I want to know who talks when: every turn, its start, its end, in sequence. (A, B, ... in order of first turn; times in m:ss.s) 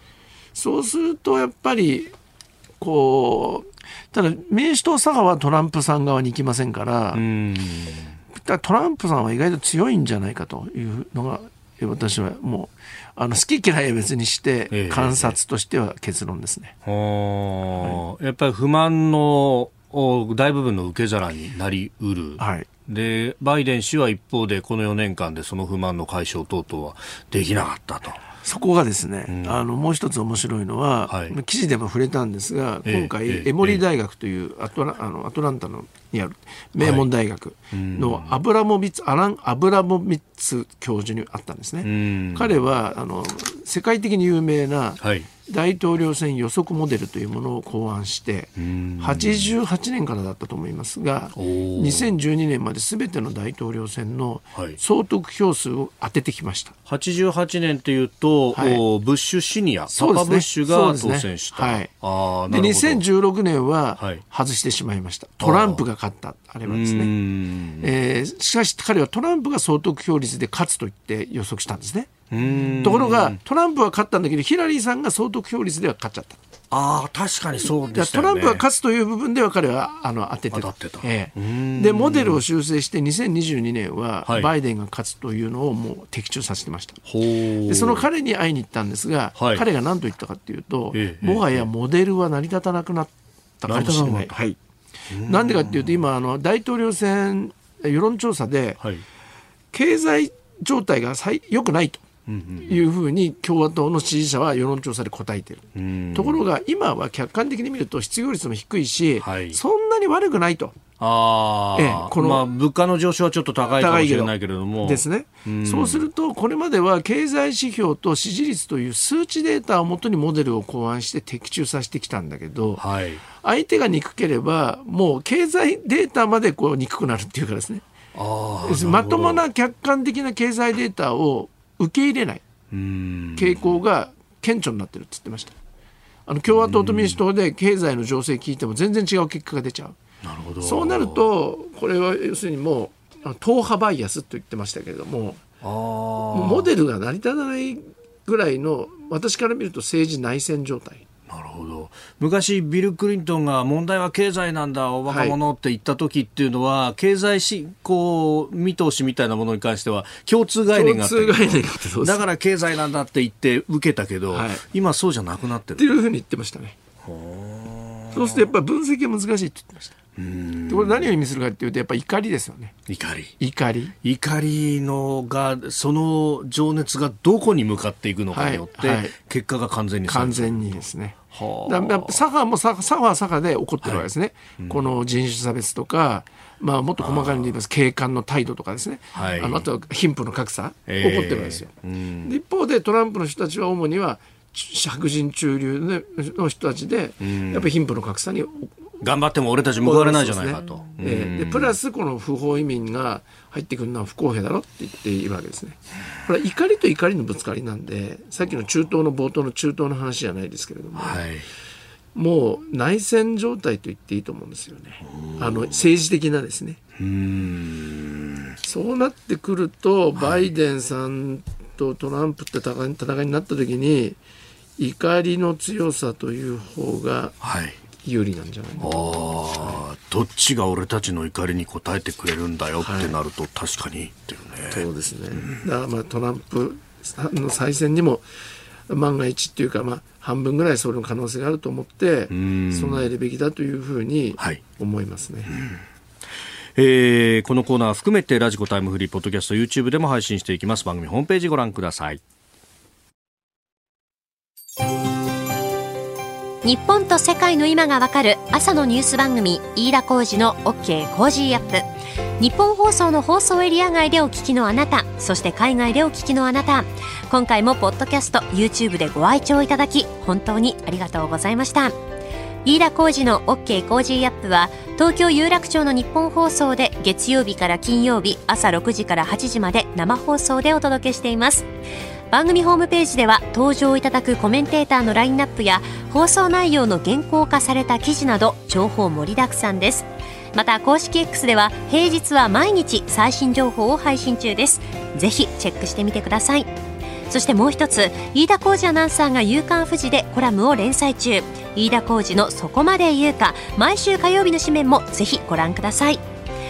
0:00.5-0:02.1 A
0:02.8-0:07.2 A
0:07.1-0:08.1 B
0:08.3-0:16.8 A
0:14.7-0:15.4 B
0:16.8-0:28.2 B
0:22.4-0:22.7 A
0:28.4-0:56.7 A
0:29.3-0:29.6 B
0:31.1-0:31.3 B
0:32.8-0:33.8 B
0:36.8-0:37.1 B
0:37.7-0:38.3 B
0:41.8-0:42.5 B
0:45.0-0:45.3 B
0:48.6-0:49.5 B
0:51.4-0:52.2 B
0:56.8-1:03.0 B
0:58.5-0:58.8 A
0:59.9-1:01.9 A
1:02.5-1:07.1 A
1:05.4-1:05.8 B
1:06.6-1:07.9 B
1:07.8-1:12.1 A
1:12.3-1:13.4 B
1:12.7-1:16.4 A
1:16.7-1:18.6 B
1:17.6-1:27.0 A
1:20.5-1:22.4 B
1:24.2-1:24.5 B
1:27.0-1:28.0 B
1:27.6-1:34.6 A
1:29.4-1:29.6 B
1:30.9-1:31.7 B
1:33.7-1:34.3 B
1:35.1-1:36.0 B
1:35.2-1:38.8 A
1:39.7-1:42.0 A
1:42.3-1:42.8 B
1:42.6-1:50.8 A
1:45.7-1:46.4 B
1:49.2-1:49.6 B
1:51.0-1:56.0 B
1:51.7-1:52.5 A
1:53.8-2:02.8 A
2:02.8-2:03.2 B
2:03.4-2:07.8 A
2:08.1-2:09.4 B
2:08.6-2:12.4 A
2:12.7-2:13.8 B
2:13.4-2:15.5 A
2:16.3-2:20.0 A
2:16.5-2:17.2 B
2:20.2-2:21.3 B
2:20.6-2:25.4 A
2:25.6-2:26.7 B
2:26.3-2:31.0 A
2:31.3-2:45.9 B
2:35.1-2:35.4 A
2:40.7-2:42.2 A
2:44.3-2:44.6 A
2:45.8-2:46.8 A
2:47.0-2:48.4 B
2:48.1-2:49.9 A
2:50.2-2:51.1 B
2:50.7-2:52.8 A
2:52.9-2:53.3 B
2:53.4-2:53.9 A
2:54.0-3:02.2 B
2:58.3-2:59.1 A
3:00.0-3:11.7 A
3:07.0-3:07.5 B
3:09.1-3:09.6 B
3:10.9-3:12.3 B
3:12.2-3:18.7 A
3:17.2-3:17.7 B
3:19.0-3:21.8 B
3:19.8-3:31.2 A
3:31.0-3:31.5 B
3:32.1-3:36.8 A
3:35.1-3:35.8 B
3:37.0-3:38.6 B
3:38.6-3:44.2 A
3:40.2-3:40.4 B
3:44.8-3:47.4 A
3:47.4-3:47.8 B
3:48.0-3:49.0 A
3:48.8-3:55.6 B
3:52.8-3:53.1 A
3:54.7-3:58.2 A
3:58.9-4:05.5 A
4:02.3-4:03.1 B
4:05.5-4:05.8 B
4:06.7-4:12.2 B
4:16.6-4:21.8 C
4:22.4-4:31.9 C
4:32.6-4:41.7 C
4:42.3-4:56.7 C
4:57.3-5:06.2 C